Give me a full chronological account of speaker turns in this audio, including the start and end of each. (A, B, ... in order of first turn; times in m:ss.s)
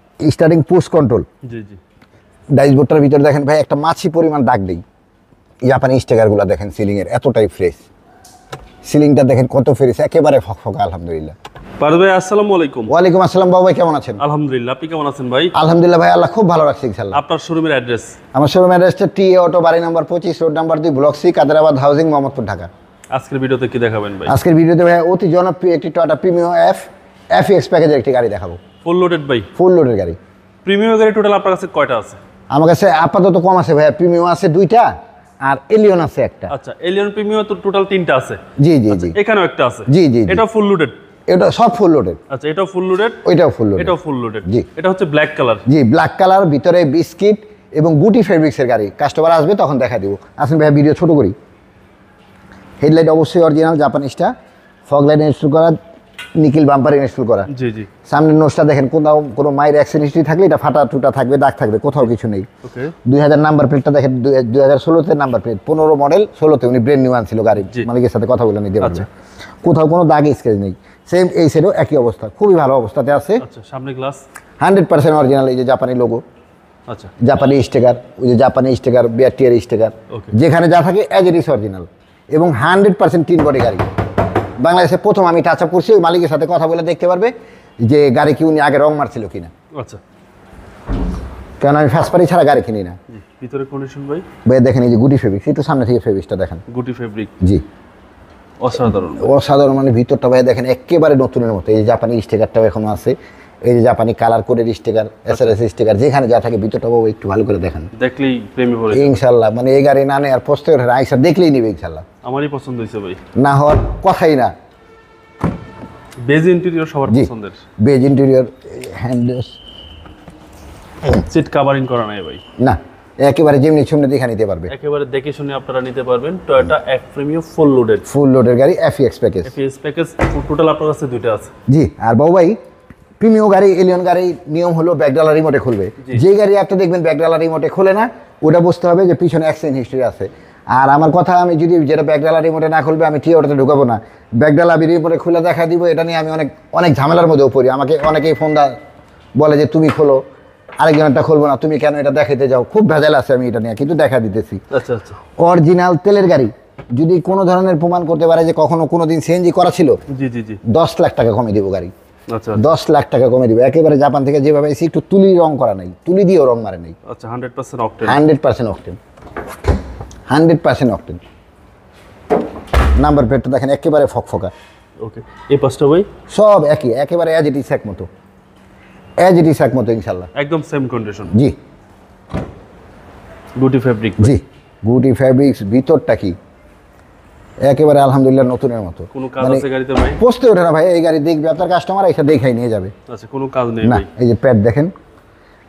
0:00.2-0:01.2 A
0:01.4-0:01.8 B
0:02.5-0:04.8 A
0:05.6-0:07.8 A
0:08.8-0:11.3 A
0:11.8-0:12.9 B
0:12.9-0:14.2 A
0:14.2-0:15.5 B
0:15.5-0:17.2 A
0:17.1-0:18.2 B
0:18.3-0:22.7 A
0:23.1-0:24.4 B
0:24.2-0:28.6 A
0:28.8-0:29.5 B
0:29.6-0:30.2 A
0:30.6-0:32.2 B
0:32.5-0:34.9 A
0:35.4-0:36.5 A
0:36.5-0:40.9 B
0:38.6-0:39.1 A
0:39.9-0:40.4 A
0:41.3-0:42.2 A
0:42.3-0:43.2 B
0:43.2-0:43.9 A
0:43.8-0:45.6 B
0:45.7-0:51.3 A
0:52.8-0:54.3 A
0:54.9-0:55.8 A
0:56.3-0:57.5 A
0:57.5-0:57.9 B
0:58.1-1:02.5 A
1:02.6-1:02.9 B
1:03.0-1:09.1 A
1:08.8-1:09.0 B
1:09.6-1:13.4 A
1:13.4-1:14.2 B
1:14.6-1:16.2 A
1:16.9-1:17.1 B
1:17.2-1:23.9 A
1:24.6-1:29.5 A
1:29.7-1:30.0 B
1:31.6-1:33.0 A
1:33.1-1:34.2 B
1:34.4-1:36.6 A
1:36.7-1:37.3 B
1:38.6-1:39.3 B
1:39.2-1:47.9 A
1:45.3-1:45.6 B
1:47.9-1:49.2 B
1:48.9-1:52.0 A
1:52.2-1:53.2 B
1:53.4-1:54.5 A
1:56.2-1:57.6 B
1:57.8-1:59.6 A
2:01.2-2:02.4 B
2:02.6-2:04.7 A
2:04.7-2:08.0 B
2:08.1-2:09.5 A
2:09.4-2:11.5 B
2:11.7-2:12.6 A
2:13.2-2:28.8 A
2:29.4-2:30.2 A
2:30.8-2:34.6 A
2:34.7-2:35.2 B
2:35.4-2:40.0 A
2:40.1-2:40.6 B
2:40.7-2:41.9 A
2:42.3-2:42.6 B
2:42.6-2:47.0 A
2:47.0-2:48.2 B
2:48.1-2:49.0 A
2:50.3-2:51.2 A
2:53.0-2:54.5 A
2:55.0-2:56.1 B
2:56.3-2:58.1 A
2:59.2-3:00.3 A
3:00.3-3:01.3 B
3:03.6-3:04.4 B
3:04.2-3:06.4 A
3:07.6-3:09.6 A
3:09.1-3:10.2 B
3:10.2-3:12.9 A
3:13.1-3:14.1 B
3:13.8-3:14.9 A